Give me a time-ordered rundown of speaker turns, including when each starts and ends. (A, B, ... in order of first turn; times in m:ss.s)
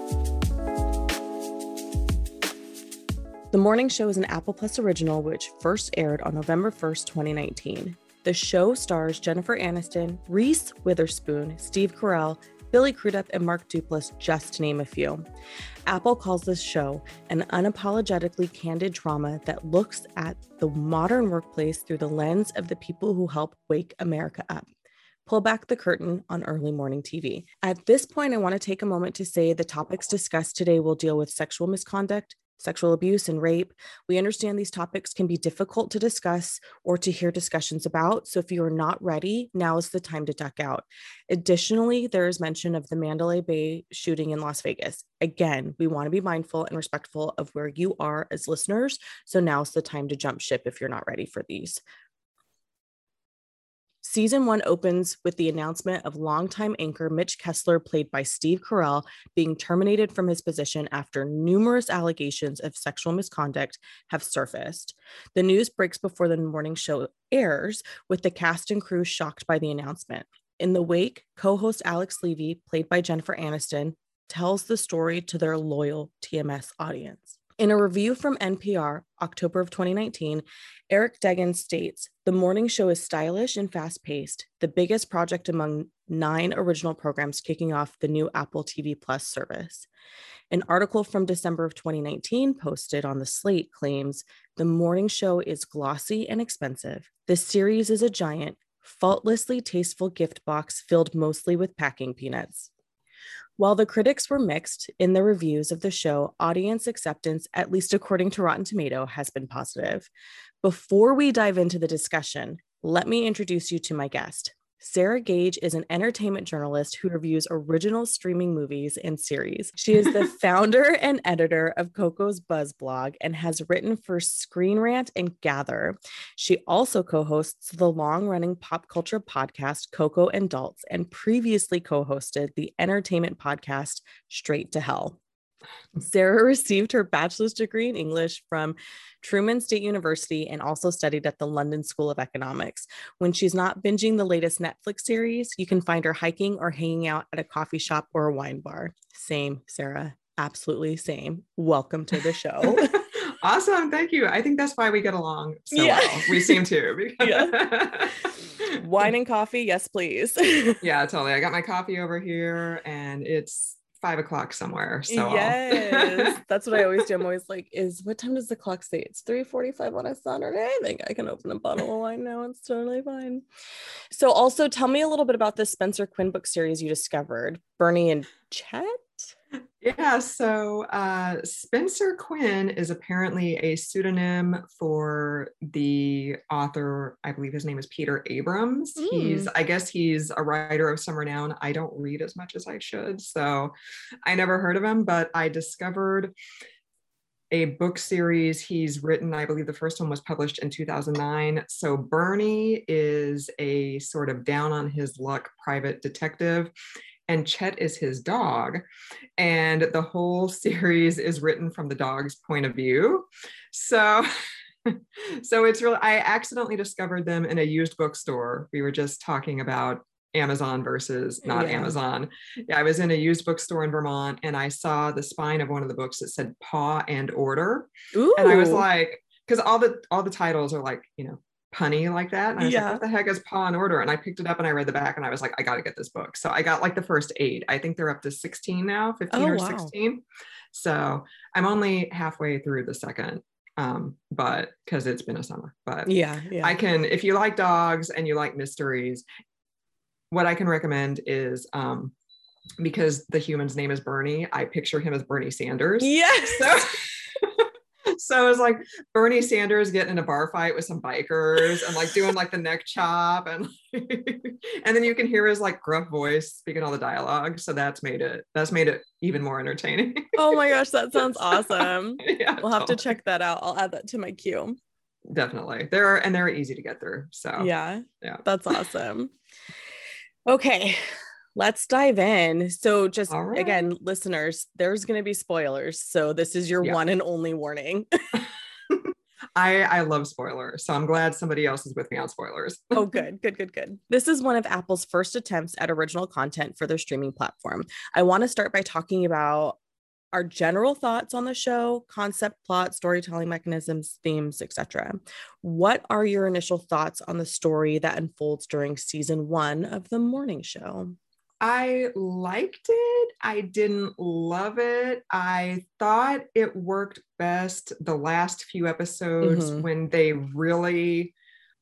0:03.5-0:15.2 A
0:15.9-0:24.7 A
0:25.2-0:51.8 A
0:54.0-1:29.9 A
1:30.5-1:42.7 A
1:43.6-1:50.1 A
1:50.6-2:15.2 A
2:16.0-2:33.0 A
2:32.6-2:38.7 B
2:35.7-2:36.6 A
2:37.2-2:40.8 A
2:40.8-2:46.3 B
2:45.1-2:53.4 A
2:54.1-2:59.3 A
2:59.8-3:13.7 B
3:09.0-3:09.5 A
3:14.2-3:16.3 B
3:17.5-3:26.7 B
3:27.3-3:28.8 B
3:29.4-3:34.3 B
3:34.8-4:09.2 B
3:41.4-3:42.0 A
3:48.1-3:48.8 A
3:52.6-3:53.0 A
3:59.3-3:59.9 A
4:06.0-4:06.7 A
4:10.3-4:12.1 B
4:12.8-4:30.6 B
4:16.0-4:16.8 A
4:30.3-4:34.8 A
4:31.3-4:33.0 B
4:35.3-4:37.7 B
4:37.6-4:39.3 A
4:40.4-4:48.1 A
4:43.3-4:43.8 B
4:48.3-4:53.2 B
4:52.9-4:59.8 A
5:00.3-5:11.2 A
5:11.6-5:21.3 B
5:19.4-5:19.8 A